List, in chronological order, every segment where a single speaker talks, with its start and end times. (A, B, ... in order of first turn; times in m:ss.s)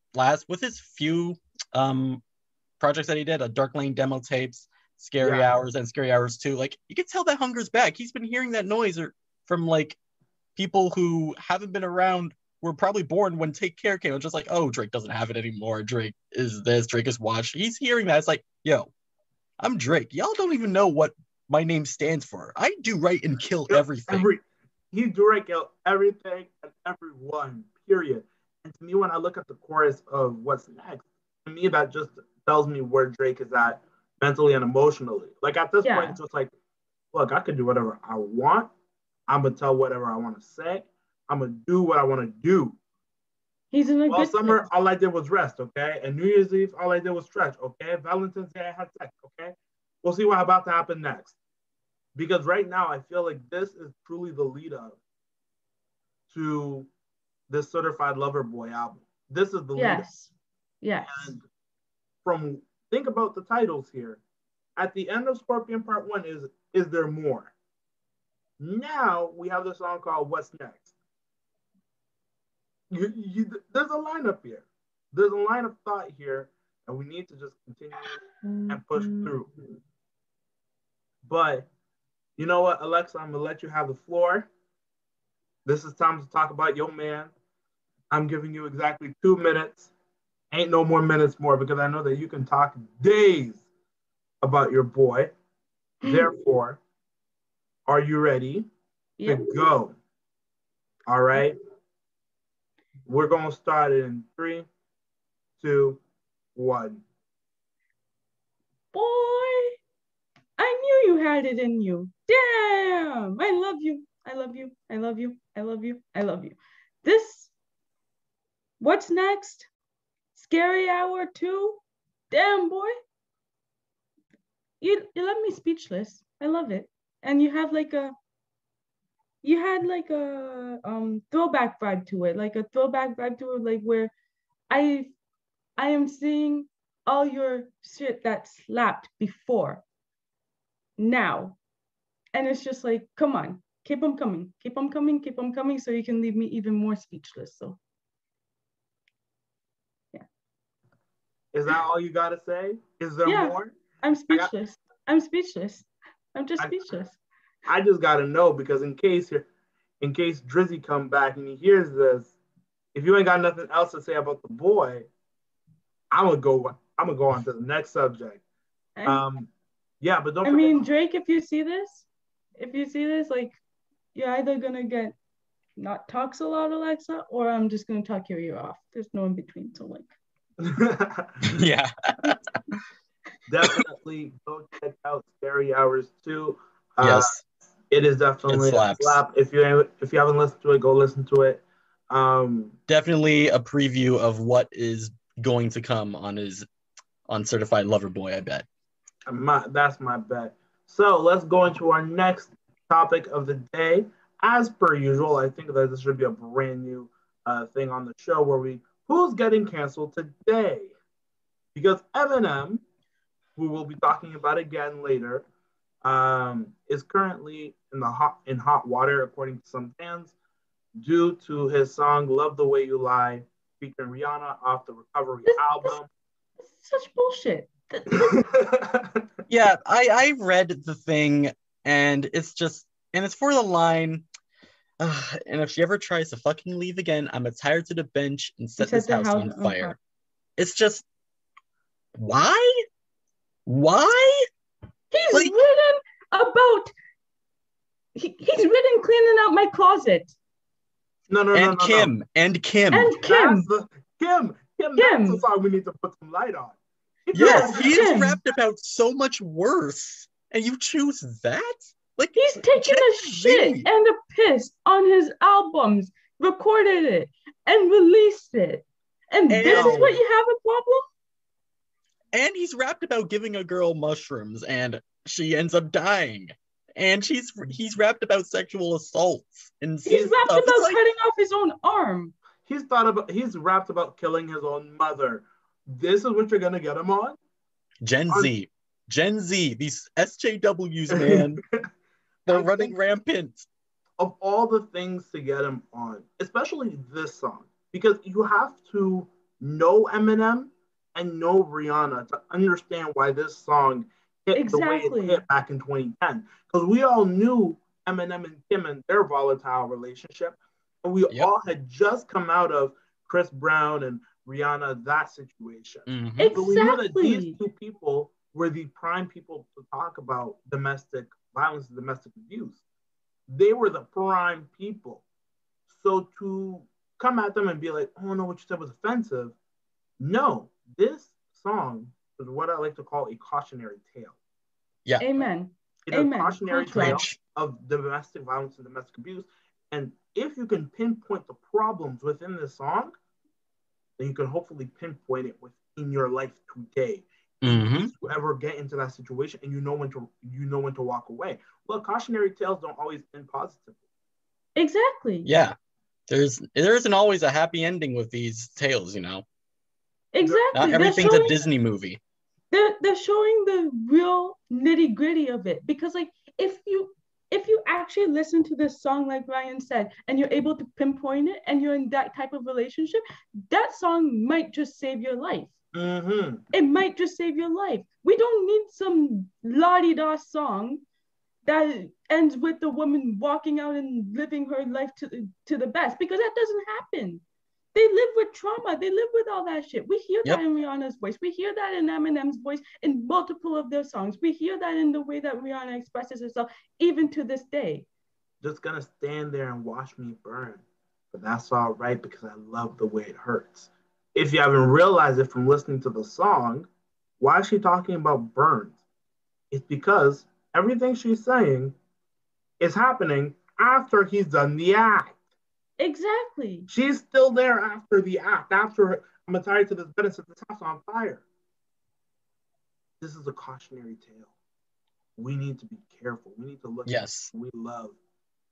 0:00.1-0:02.2 A
0:02.8-0:10.0 A
0:05.2-0:05.5 B
0:10.6-0:18.9 A
0:19.6-0:24.3 A
0:23.7-0:36.5 B
0:35.8-0:36.2 C
0:37.1-0:38.7 B
0:39.3-0:42.8 B
0:43.7-0:44.7 C
0:44.1-0:51.4 B
0:52.1-0:55.0 B
0:56.3-0:56.9 B
0:57.5-1:00.0 B
0:59.7-1:01.3 C
1:01.0-1:01.4 B
1:02.2-1:04.2 B
1:04.8-1:07.5 B
1:08.6-1:10.9 B
1:12.9-1:19.5 B
1:18.4-1:19.3 C
1:21.2-1:21.7 B
1:22.4-1:24.5 B
1:25.6-1:27.3 B
1:28.1-1:29.9 B
1:30.5-1:33.6 B
1:34.4-1:35.3 B
1:36.0-1:36.8 B
1:37.9-1:38.7 B
1:39.2-1:39.6 C
1:39.2-1:39.9 B
1:41.1-1:41.6 B
1:43.0-1:44.7 B
1:45.6-1:46.0 B
1:46.6-1:47.0 B
1:48.9-1:49.8 C
1:50.6-1:57.5 C
1:58.8-1:59.7 C
2:00.3-2:02.9 C
2:04.8-2:08.1 C
2:09.4-2:14.1 C
2:14.7-2:15.1 C
2:15.8-2:19.8 C
2:21.0-2:21.6 C
2:22.3-2:27.8 C
2:31.5-2:33.8 B
2:33.2-2:37.2 C
2:37.7-2:39.4 B
2:40.0-2:42.4 B
2:42.9-2:45.1 B
2:46.1-2:48.4 B
2:49.0-2:49.2 C
2:49.0-2:49.5 B
2:50.0-2:50.8 B
2:50.4-2:53.6 C
2:54.1-2:55.1 C
2:55.8-3:00.1 C
3:00.6-3:01.5 B
3:01.5-3:02.4 A
3:03.5-3:07.3 B
3:07.0-3:07.4 A
3:07.9-3:12.8 B
3:08.5-3:09.2 A
3:12.9-3:16.6 A
3:17.3-3:18.6 A
3:19.3-3:30.9 B
3:31.7-3:32.8 B
3:33.6-3:35.4 B
3:36.0-3:40.3 B
3:41.0-3:46.1 B
3:45.4-3:46.0 C
3:46.6-3:48.4 C
3:48.1-3:49.2 B
3:49.5-3:54.2 A
3:55.0-4:00.0 A
3:58.8-4:00.0 C
4:00.6-4:01.0 A
4:02.2-4:02.8 A
4:03.6-4:04.5 A
4:05.1-4:06.9 C
4:08.1-4:10.3 C
4:11.3-4:12.1 B
4:11.5-4:13.2 A
4:12.9-4:13.7 C
4:13.2-4:18.3 B
4:15.0-4:15.4 C
4:17.3-4:18.3 C
4:17.3-4:23.9 A
4:22.3-4:31.0 C
4:29.5-4:30.0 A
4:29.7-4:30.2 B
4:32.3-4:41.0 A
4:40.0-4:42.3 C
4:42.7-4:47.4 B
4:48.0-4:51.6 A
4:51.1-4:51.8 B
4:52.5-4:53.7 A
4:52.5-4:52.9 B
4:54.2-5:22.8 B
5:04.5-5:05.4 C
5:16.1-5:16.6 A
5:16.4-5:17.6 C
5:23.5-5:25.2 B
5:25.9-5:29.6 B
5:30.2-5:34.4 B
5:35.2-5:37.2 C
5:36.1-5:43.1 B
5:36.9-5:37.4 A
5:44.2-5:54.0 B
5:47.6-5:48.1 A
5:54.8-5:55.5 C
5:55.4-5:55.7 A
5:56.3-5:59.4 A
6:00.3-6:01.6 C
6:00.4-6:01.3 B
6:00.7-6:02.2 A
6:02.7-6:15.7 C
6:15.9-6:16.6 B
6:16.7-6:21.0 C
6:21.6-6:27.4 C
6:27.9-6:38.1 C
6:38.6-6:46.9 B
6:47.4-6:49.0 B
6:49.7-6:51.9 B
6:52.8-6:55.4 B
6:56.0-6:56.9 C
6:56.9-7:01.4 B
7:03.2-7:04.5 B
7:05.4-7:08.2 B
7:07.0-7:07.5 A